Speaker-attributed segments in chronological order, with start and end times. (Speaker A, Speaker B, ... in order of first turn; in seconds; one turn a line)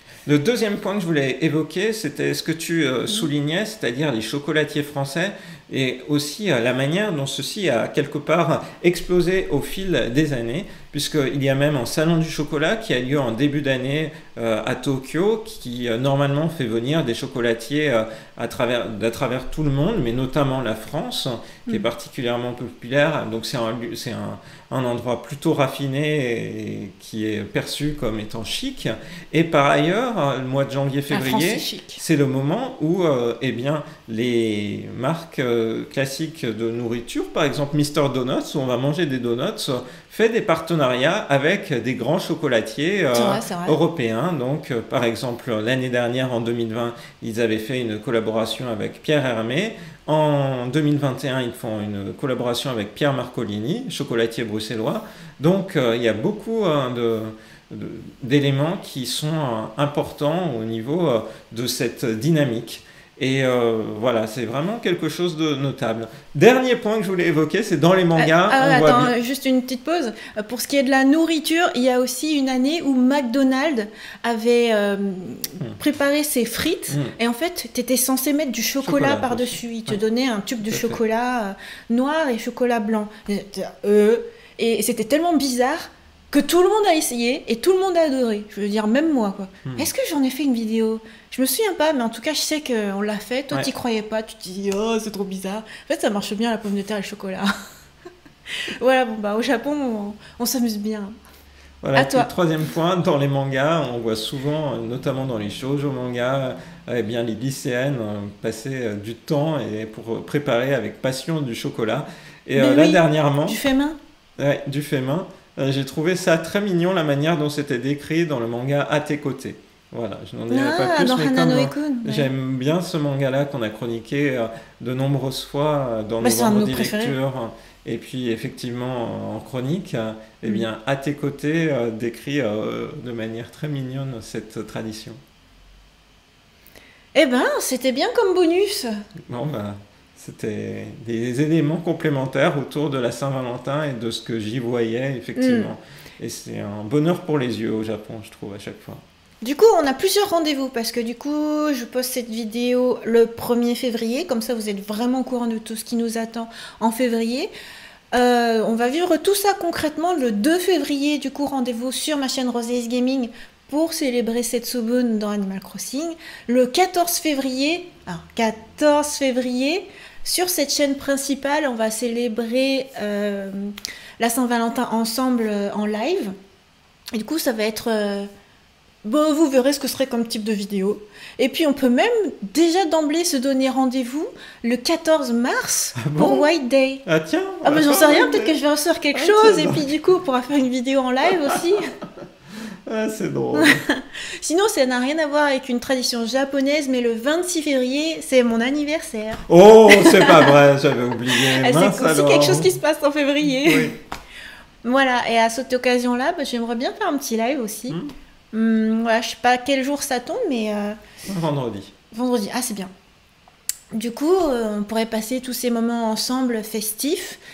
Speaker A: 0.3-69.1
Speaker B: 31.1-32.0
Speaker B: 43.1-43.8
Speaker B: 68.2-97.5
Speaker A: 76.9-77.1
Speaker A: 78.8-80.0
Speaker A: 80.7-81.0
Speaker B: 98.5-101.2
Speaker A: 101.8-113.6
Speaker B: 102.0-102.3
Speaker B: 112.6-114.0
Speaker A: 114.4-135.2
Speaker B: 120.5-122.3
Speaker B: 126.2-127.2
Speaker B: 137.2-138.9
Speaker A: 139.3-149.0
Speaker B: 145.4-145.7
Speaker B: 149.4-157.5
Speaker B: 158.1-176.3
Speaker B: 177.1-178.3
Speaker B: 179.0-187.1
Speaker A: 186.0-186.5
Speaker A: 187.1-188.6
Speaker B: 187.6-191.9
Speaker A: 189.2-189.9
Speaker A: 192.9-193.8
Speaker B: 193.6-200.6
Speaker A: 199.5-202.7
Speaker B: 201.3-204.0
Speaker A: 203.6-204.0
Speaker B: 204.8-208.0
Speaker B: 208.5-211.0
Speaker A: 211.3-211.9
Speaker B: 212.1-212.9
Speaker B: 213.9-217.4